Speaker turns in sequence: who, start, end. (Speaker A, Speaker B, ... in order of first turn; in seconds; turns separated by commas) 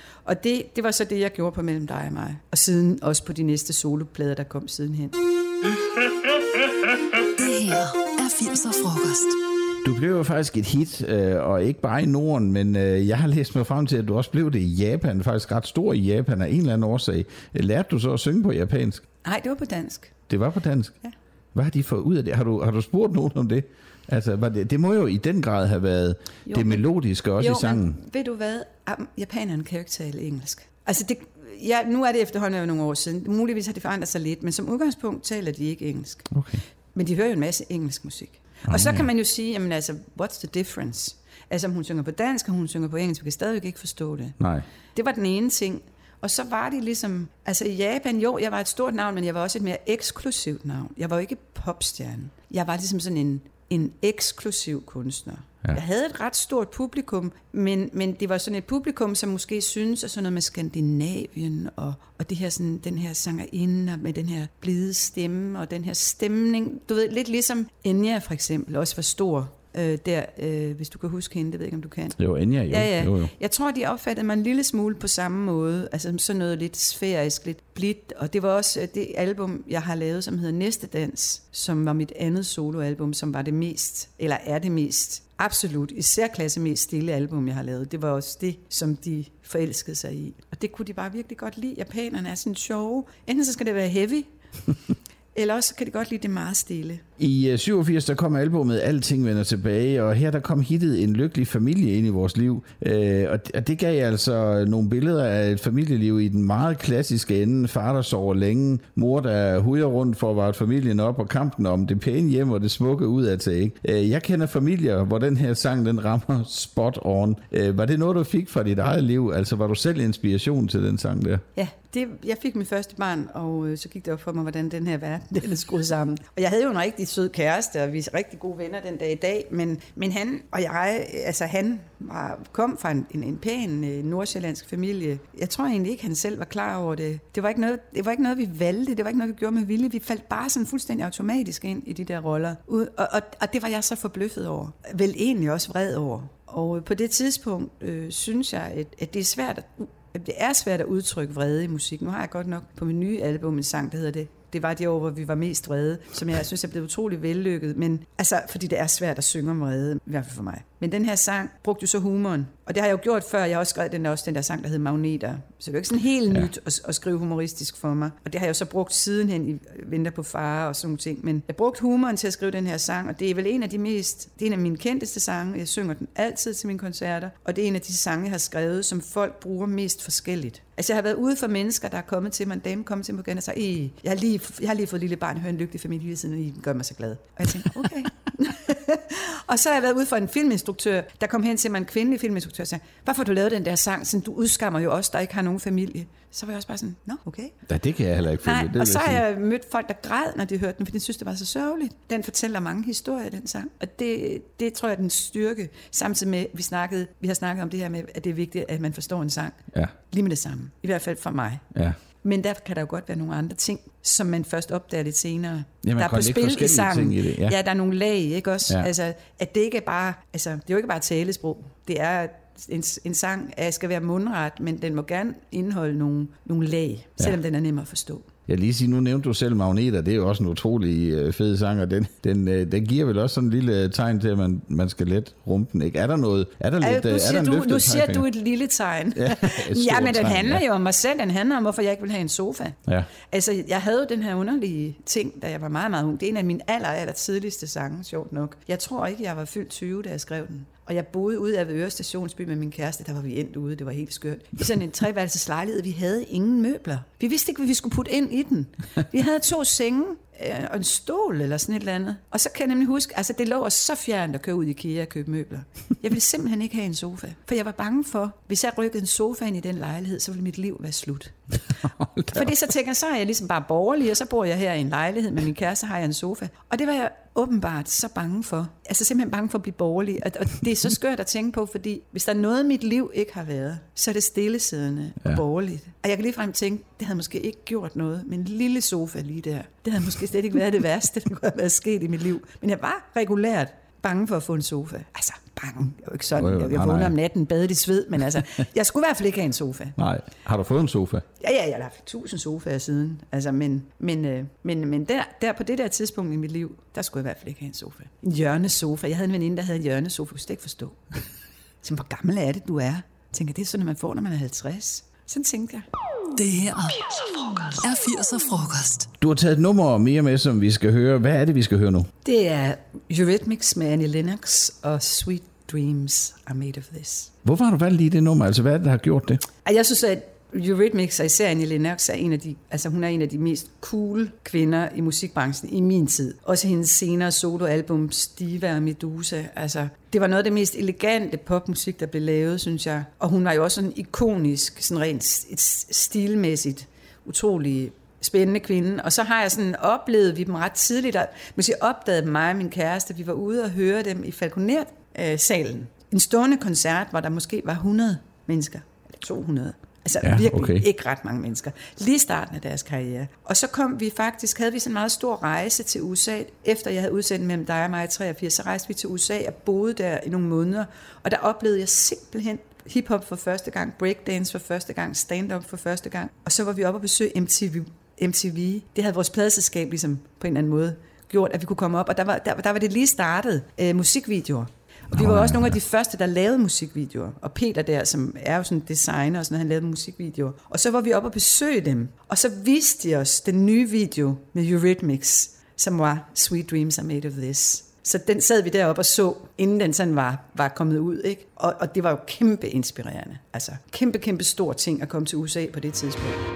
Speaker A: 0.2-5.2, Speaker B: 7.3-9.4, Speaker C: 9.8-19.0, Speaker A: 19.2-20.1, Speaker C: 20.3-21.0, Speaker C: 21.5-28.0, Speaker A: 26.5-26.8, Speaker A: 27.4-36.4, Speaker C: 36.3-36.6, Speaker A: 36.9-44.4, Speaker C: 38.7-39.1, Speaker C: 44.4-44.6, Speaker A: 45.0-72.2, Speaker C: 72.2-73.3, Speaker A: 72.7-94.3, Speaker A: 95.3-97.0, Speaker C: 97.2-121.4, Speaker A: 121.6-197.6, Speaker C: 197.7-199.2, Speaker A: 198.4-211.7, Speaker A: 212.2-228.3, Speaker C: 215.8-217.6, Speaker C: 228.5-238.2, Speaker A: 236.8-271.4, Speaker C: 239.2-240.6, Speaker C: 271.8-272.5, Speaker A: 272.3-300.0, Speaker C: 296.3-297.1, Speaker C: 300.0-301.2, Speaker A: 301.4-311.0, Speaker A: 311.8-315.9, Speaker B: 316.4-319.1, Speaker C: 319.2-322.1, Speaker A: 322.2-327.3, Speaker C: 327.4-329.4, Speaker A: 329.6-406.4, Speaker C: 360.2-360.9, Speaker C: 385.1-385.8